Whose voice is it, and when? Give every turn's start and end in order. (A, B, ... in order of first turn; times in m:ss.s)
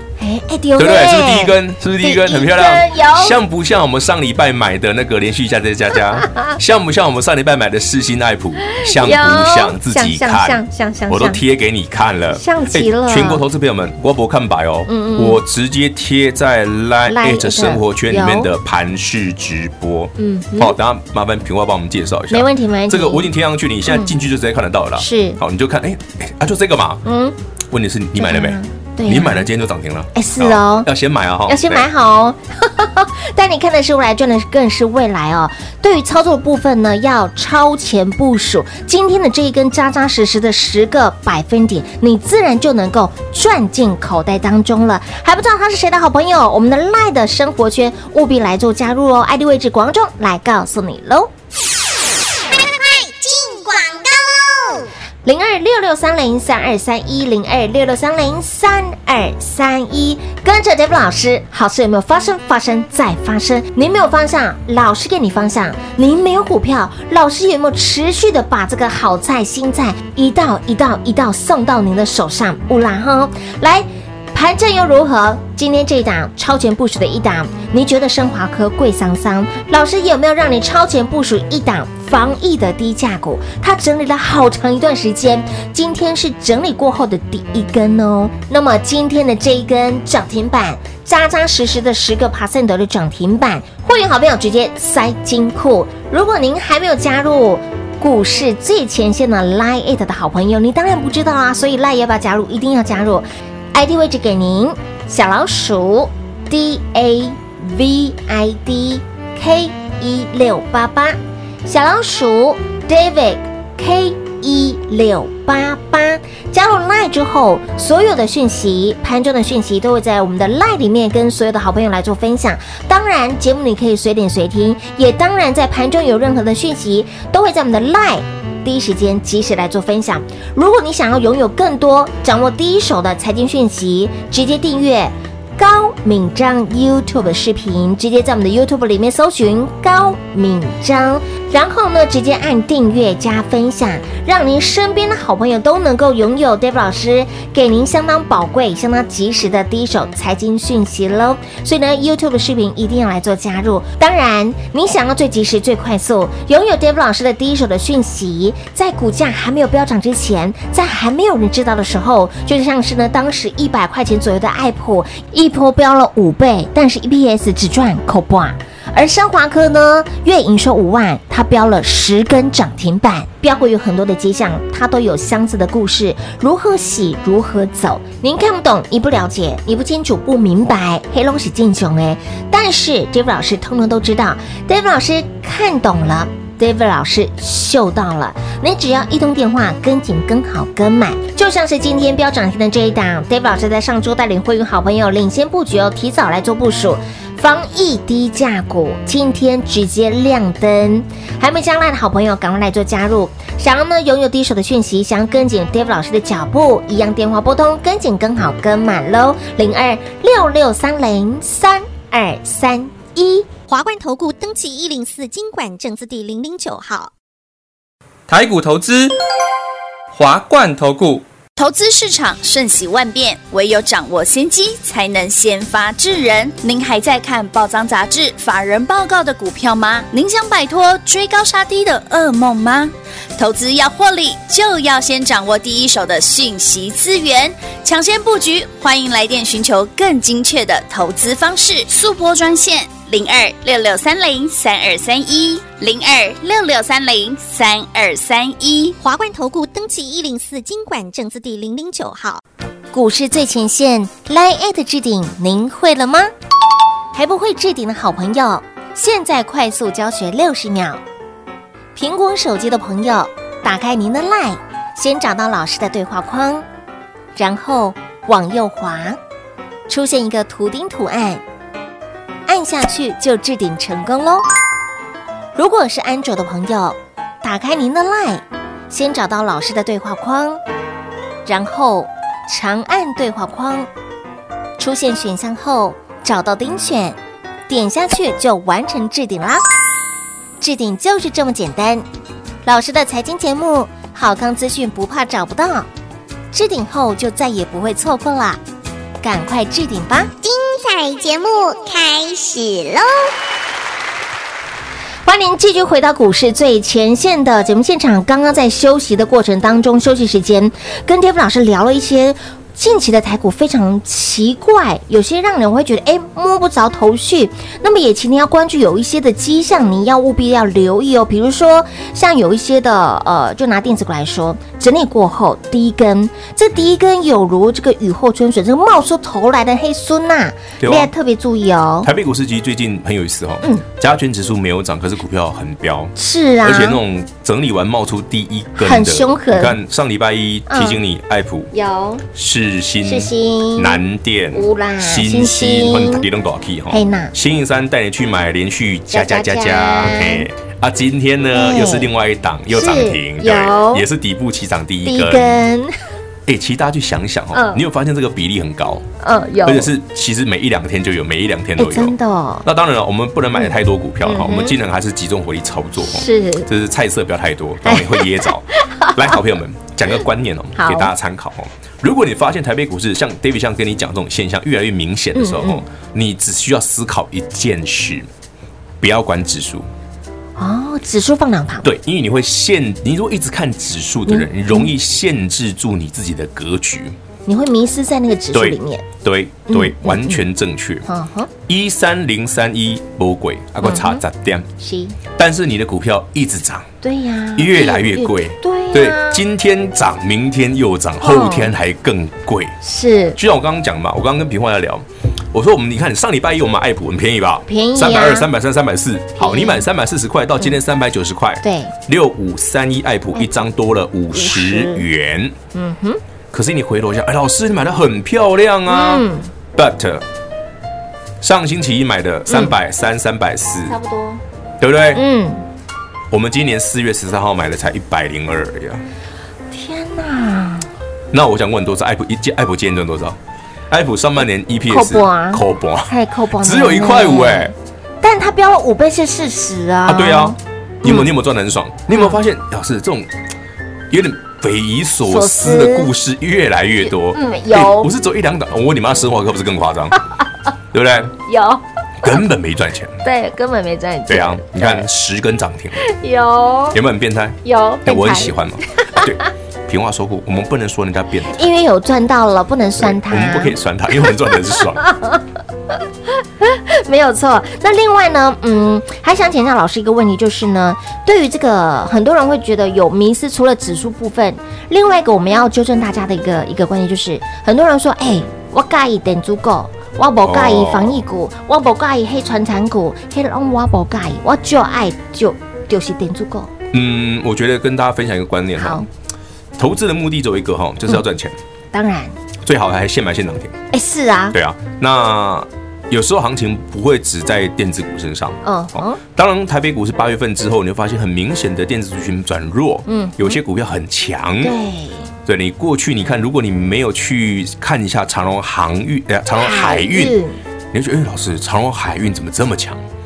0:00.2-0:03.4 A
0:00.8-0:27.0 B
0:06.3-0:06.5 A
0:08.6-0:11.4 A
0:12.3-0:13.4 A
0:14.9-0:15.4 A
0:17.1-0:18.5 A
0:20.2-0:20.8 A
0:22.3-0:23.3 A
0:25.0-0:25.4 A
0:27.0-0:27.4 A
0:27.7-0:31.9 B
0:28.2-0:29.5 A
0:30.2-0:30.9 A
0:31.5-0:51.3 A
0:55.2-3:33.5 A
3:33.7-3:37.1 C
3:38.3-3:39.2 D
3:40.1-3:41.2 D
3:41.6-4:09.0 E
4:09.0-4:12.4 C
4:12.9-4:16.3 A
4:17.1-4:21.0 A
4:22.0-4:26.6 A
4:27.4-4:29.2 A
4:29.9-4:31.4 A
4:32.5-4:34.4 A
4:35.6-4:40.6 A
4:41.5-4:43.9 A
4:44.8-4:47.2 A
4:47.7-4:49.6 A
4:50.6-4:52.0 A
4:52.6-4:55.9 A
4:56.5-4:58.6 A
4:59.2-5:00.3 A
5:00.6-5:02.7 C
5:05.2-5:32.1 A
5:30.8-5:31.1 B
5:32.0-5:41.7 B
5:36.2-5:37.0 A
5:38.8-5:39.8 A
5:40.7-5:41.0 A
5:41.7-5:42.2 A
5:42.3-5:55.6 B
5:43.0-5:44.0 A
5:44.5-5:46.3 A
5:46.9-5:47.3 A
5:49.1-5:50.5 A
5:51.5-5:52.1 A
5:52.7-5:54.0 A
5:55.0-5:55.9 A
5:56.5-5:59.0 B
5:57.5-5:57.8 A
5:59.2-5:59.9 A
5:59.6-6:18.3 B
6:01.8-6:02.7 A
6:03.6-6:04.8 A
6:06.0-6:06.7 A
6:07.8-6:09.3 A
6:10.8-6:11.1 A
6:15.4-6:15.8 A
6:19.0-6:19.9 B
6:20.6-6:21.9 A
6:21.8-6:27.2 B
6:24.3-6:24.9 A
6:27.5-6:29.0 A
6:28.5-6:31.0 B
6:29.7-6:30.5 A
6:31.0-6:31.5 A
6:31.7-6:34.7 B
6:33.8-6:34.2 A
6:34.8-6:35.2 A
6:35.4-6:36.9 B
6:37.0-6:39.4 A
6:37.6-6:42.8 B
6:41.2-6:41.8 A
6:42.8-6:43.4 A
6:43.4-6:55.6 B
6:47.7-6:48.5 A
6:49.4-6:49.9 A
6:51.6-6:51.9 A
6:54.3-6:55.0 A
6:55.7-6:56.2 A
6:56.5-7:00.2 B
6:58.9-6:59.5 A
7:01.4-7:04.0 B
7:02.5-7:02.7 A
7:03.9-7:04.4 A
7:04.8-7:05.2 B
7:05.1-7:05.6 A
7:06.3-7:09.0 B
7:09.7-7:10.9 A
7:11.3-7:13.4 B
7:13.9-7:17.7 B
7:14.9-7:21.3 A
7:20.1-7:23.3 B
7:22.1-7:22.4 A
7:24.1-7:30.2 B
7:25.3-7:26.1 A
7:27.0-7:28.1 A
7:30.9-7:31.4 B
7:31.5-7:32.4 A
7:32.2-7:33.2 B
7:33.2-7:35.0 A
7:34.3-7:36.0 B
7:36.0-7:37.0 A
7:36.9-7:41.6 B
7:37.6-7:39.2 A
7:41.5-7:43.8 A
7:43.0-7:45.1 B
7:44.5-7:45.4 A
7:46.6-8:06.7 A
8:00.4-8:01.2 B
8:06.9-8:09.0 B
8:08.8-8:09.1 A
8:09.8-8:11.6 B
8:11.9-8:12.4 A
8:12.6-8:13.8 B
8:13.9-8:14.6 A
8:14.5-8:24.8 B
8:18.6-8:19.2 A
8:23.1-8:23.6 A
8:24.6-8:25.3 A
8:25.5-8:30.4 B
8:29.6-8:30.6 A
8:30.9-8:33.0 B